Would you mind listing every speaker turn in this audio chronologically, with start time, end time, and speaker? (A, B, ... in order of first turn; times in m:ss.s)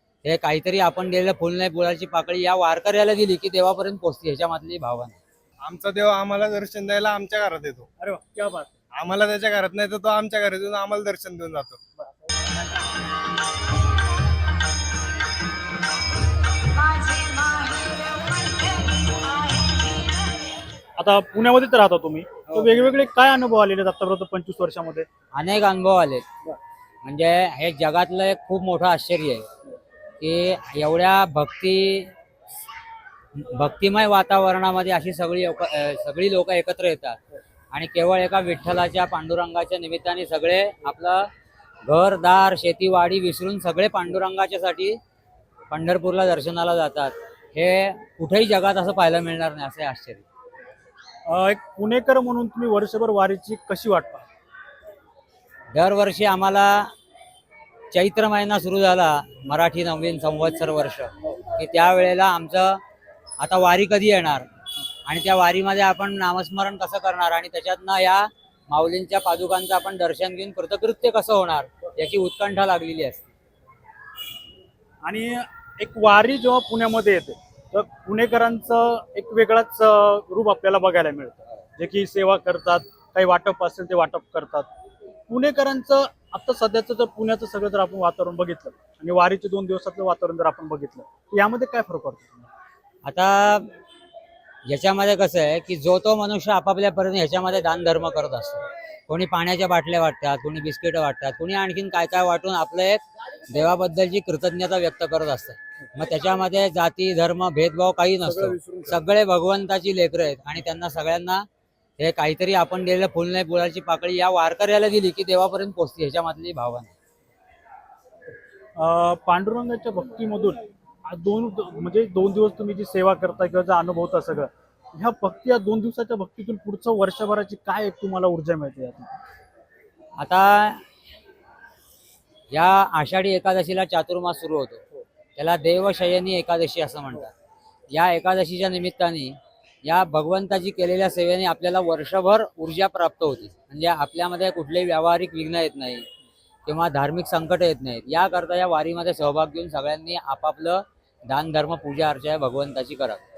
0:00.2-0:05.2 A
0:05.6-0:07.9 B
0:08.0-0:08.7 C
0:09.0-0:11.8 B
0:21.0-0:25.1 C
0:25.3-0:26.3 A
0:27.0-0:29.4 A
0:30.2-0:32.1 A
0:33.3-0:37.2 A
0:37.7-0:41.3 A
0:41.8-0:45.0 A
0:45.7-0:50.2 A
0:51.3-0:54.3 C
0:55.7-0:56.9 A
0:57.9-1:02.8 A
1:03.4-1:04.4 A
1:05.0-1:13.3 A
1:15.0-1:24.7 C
1:25.3-1:32.5 C
1:33.0-1:33.7 A
1:34.6-1:51.4 A
1:52.0-1:56.9 A
1:58.8-2:09.1 C
2:10.2-2:10.8 A
2:12.5-2:14.8 A
2:15.4-2:17.3 A
2:17.9-2:26.0 A
2:26.7-2:33.2 A